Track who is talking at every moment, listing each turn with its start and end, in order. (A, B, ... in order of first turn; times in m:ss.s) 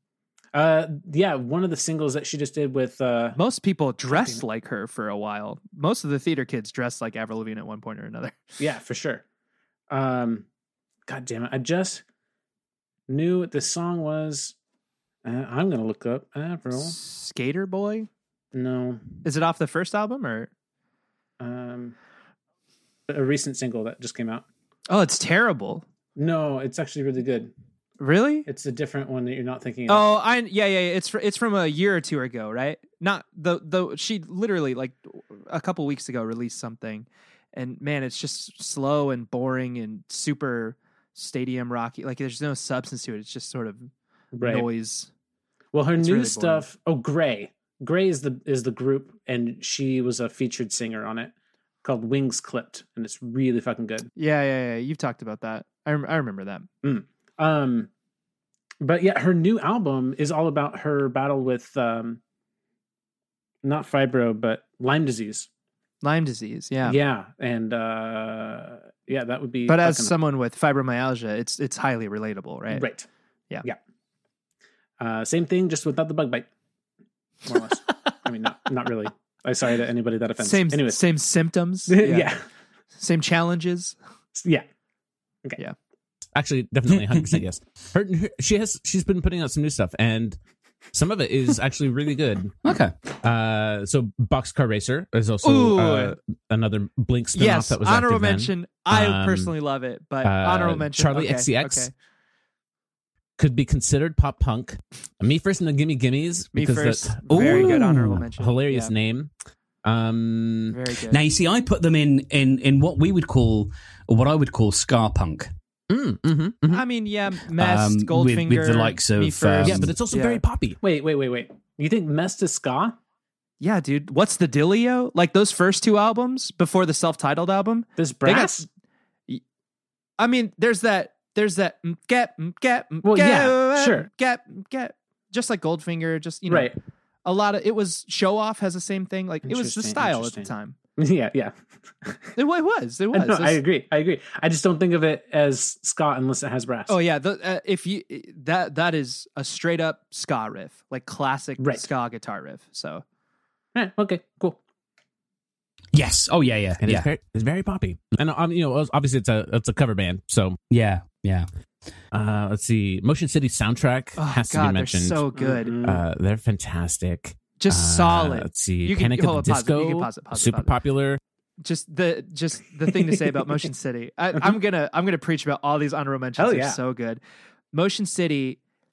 0:00.5-0:03.4 A
0:03.4-0:08.6 B
0:04.1-0:04.4 A
0:08.6-0:09.2 A
0:09.9-0:10.4 A
0:11.1-0:12.0 A
0:13.1-0:14.5 A
0:15.2-0:17.0 A
0:16.7-0:18.1 B
0:18.5-0:19.1 A
0:19.2-0:20.5 B
0:21.4-0:21.9 A
0:23.1-0:24.4 A
0:24.9-0:25.8 B
0:26.2-0:27.5 A
0:28.0-0:28.5 B
0:28.5-0:30.1 A
0:29.9-0:43.9 B
0:44.3-0:44.7 A
0:44.4-0:45.1 B
0:45.7-0:54.1 A
0:46.0-0:46.7 B
0:54.2-0:56.7 B
0:56.8-0:57.9 A
0:58.8-1:02.2 A
1:03.6-1:05.5 A
1:06.0-1:07.0 B
1:06.8-1:10.1 A
1:09.7-1:12.9 B
1:12.7-1:13.0 A
1:15.0-1:16.5 A
1:17.5-1:21.0 A
1:20.4-1:22.3 B
1:21.9-1:22.4 A
1:23.0-1:24.0 B
1:24.4-1:24.6 A
1:26.4-1:30.4 C
1:26.9-1:27.4 D
1:30.9-1:32.6 C
1:32.6-1:32.9 D
1:33.2-1:39.5 C
1:35.4-1:36.2 B
1:37.4-1:41.9 B
1:40.2-1:41.9 C
1:43.4-1:47.8 C
1:46.5-1:48.9 B
1:47.3-1:48.2 D
1:48.4-1:49.3 C
1:49.8-1:50.8 C
1:50.7-1:51.2 B
1:51.1-1:55.5 D
1:55.9-1:56.8 C
1:56.7-2:00.4 B
1:57.6-1:59.9 D
1:59.6-2:00.8 C
2:00.8-2:03.0 A
2:03.6-2:08.6 B
2:08.0-2:08.6 A
2:10.2-2:16.7 B
2:13.0-2:14.1 A
2:16.5-2:16.8 A
2:17.2-2:20.8 B
2:19.4-2:22.4 A
2:22.4-2:23.6 B
2:23.1-2:27.0 A
2:26.9-2:33.0 B
2:31.6-2:31.9 A
2:33.8-2:34.6 A
2:35.9-2:37.1 D
2:36.8-2:40.6 C
2:40.7-2:41.5 D
2:42.1-2:45.2 C
2:44.2-2:45.8 B
2:45.4-2:46.0 A
2:45.8-2:51.2 C
2:47.6-2:50.7 B
2:51.6-2:57.2 B
2:52.9-2:53.4 A
2:56.4-2:56.8 A
2:57.7-2:58.6 B